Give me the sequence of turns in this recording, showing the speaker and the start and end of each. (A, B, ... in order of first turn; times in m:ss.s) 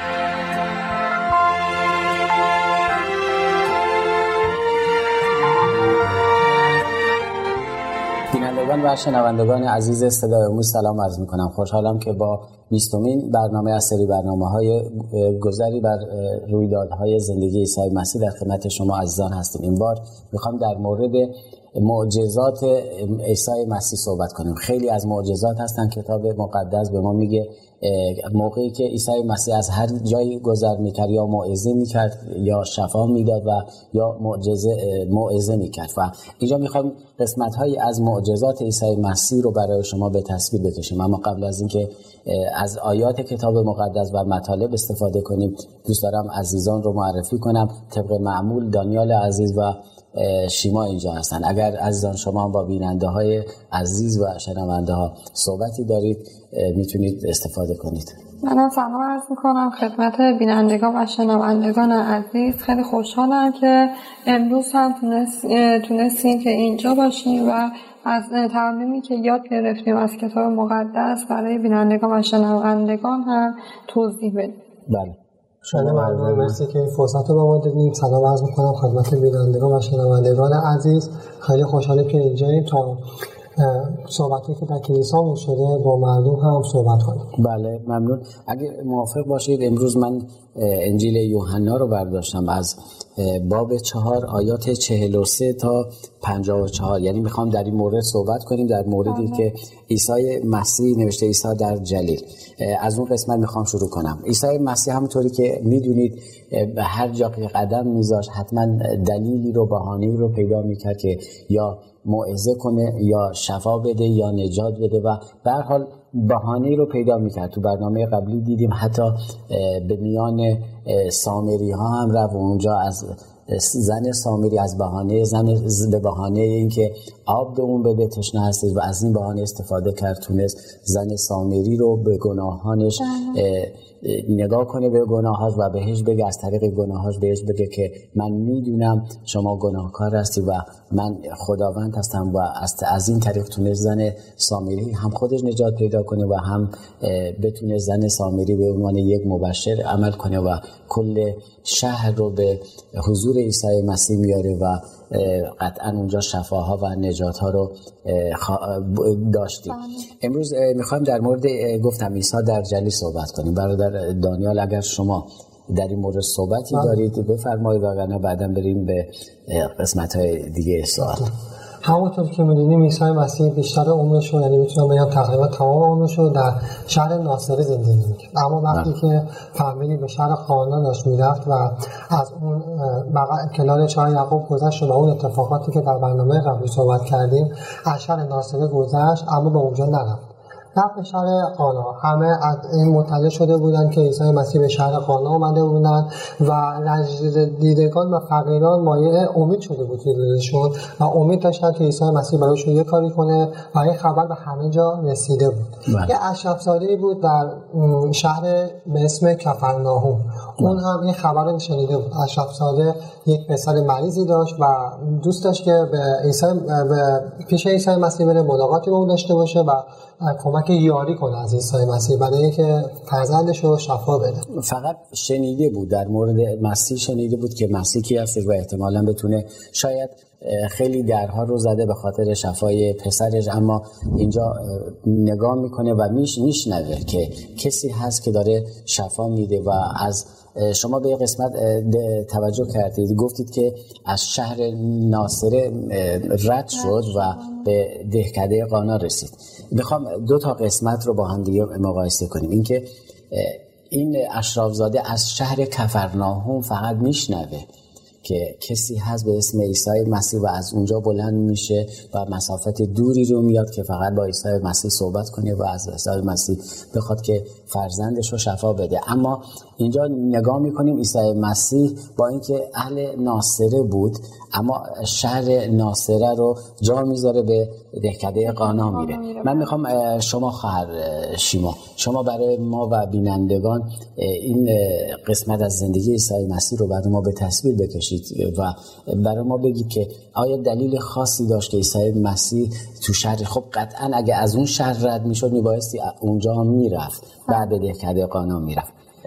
0:08.3-0:58.2 A
0:58.4-1:14.6 B
1:14.9-1:16.6 A
1:15.7-1:23.0 C
1:23.6-1:27.3 C
1:27.4-2:51.3 A
1:39.1-1:39.4 B
2:13.0-2:13.4 B
2:39.7-2:40.1 B
2:51.0-2:51.3 C
2:51.8-3:44.4 C
3:25.9-3:26.1 A
3:44.5-4:17.7 A
4:06.7-4:07.7 B
4:18.2-4:58.9 A
4:38.4-4:39.8 B